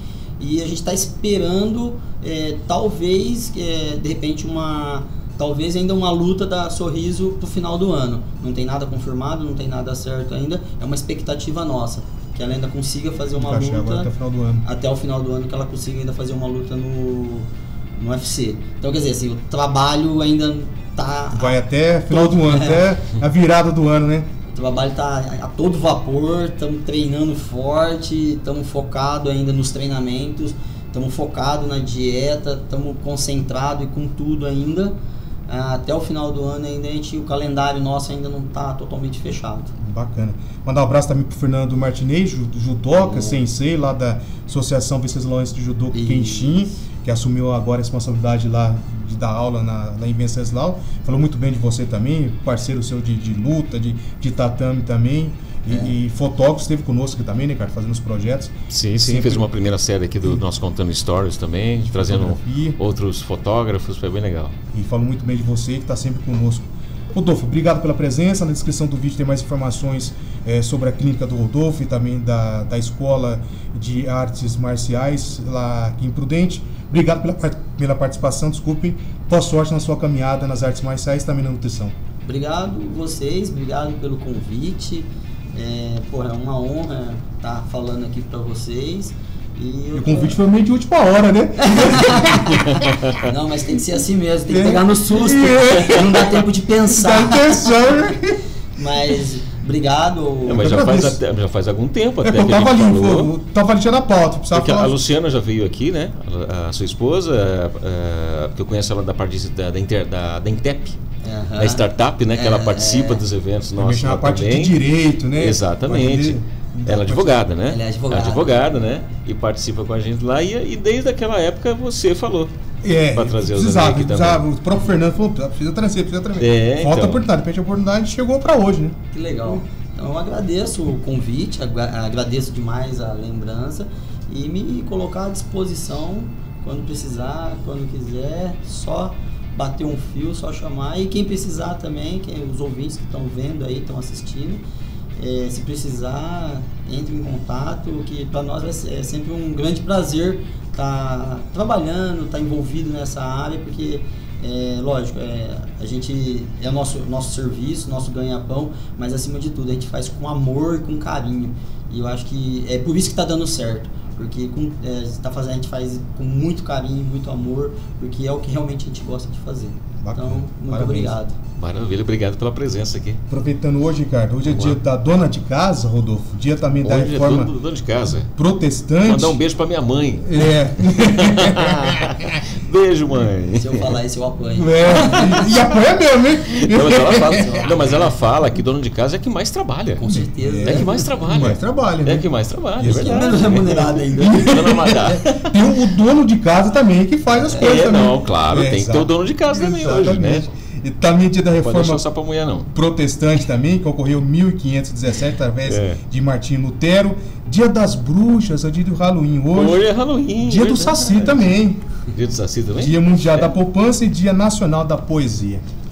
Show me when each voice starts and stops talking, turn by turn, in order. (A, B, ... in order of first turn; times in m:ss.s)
0:00.4-0:14.1 A
0:13.4-0:14.6 B
0:14.6-0:22.9 A
0:21.3-0:24.3 B
0:24.5-0:34.9 A
0:35.5-0:39.7 A
0:39.8-0:59.5 B
0:43.0-0:43.4 A
0:45.9-0:46.8 A
0:55.7-0:56.0 A
0:58.7-1:04.6 C
1:01.9-1:02.8 B
1:04.7-1:22.0 B
1:22.2-1:30.4 A
1:30.0-1:32.6 B
1:31.6-1:38.1 A
1:32.3-1:33.2 C
1:34.5-1:38.4 B
1:38.8-1:40.7 A
1:40.5-1:43.3 C
1:40.6-1:41.2 B
1:42.2-1:45.0 B
1:44.5-1:51.0 C
1:51.2-1:53.2 A
1:51.6-1:54.8 C
1:53.8-1:57.4 B
1:55.4-2:02.5 C
1:57.7-1:58.7 A
2:02.8-2:09.0 B
2:03.1-2:04.4 C
2:06.4-2:07.3 C
2:09.1-2:24.6 A
2:25.2-2:51.4 A
2:50.0-2:51.2 B
2:51.6-2:53.2 C
2:53.3-2:57.5 B
2:54.5-2:54.8 C
2:56.8-2:58.3 C
2:58.3-2:59.4 B
2:59.0-3:04.0 C
3:00.2-3:02.2 B
3:03.6-3:05.4 A
3:04.6-3:07.7 B
3:04.9-3:05.6 C
3:06.4-3:10.0 C
3:07.3-3:08.1 A
3:10.0-3:11.1 A
3:10.1-3:12.3 B
3:10.6-3:15.7 C
3:12.8-3:22.0 B
3:13.0-3:14.7 A
3:17.3-3:17.8 A
3:17.6-3:20.5 C
3:21.6-3:22.7 C
3:22.7-3:29.8 B
3:25.7-3:26.0 C
3:29.5-3:31.5 C
3:30.4-3:31.8 B
3:32.1-3:33.5 C
3:32.8-3:35.6 B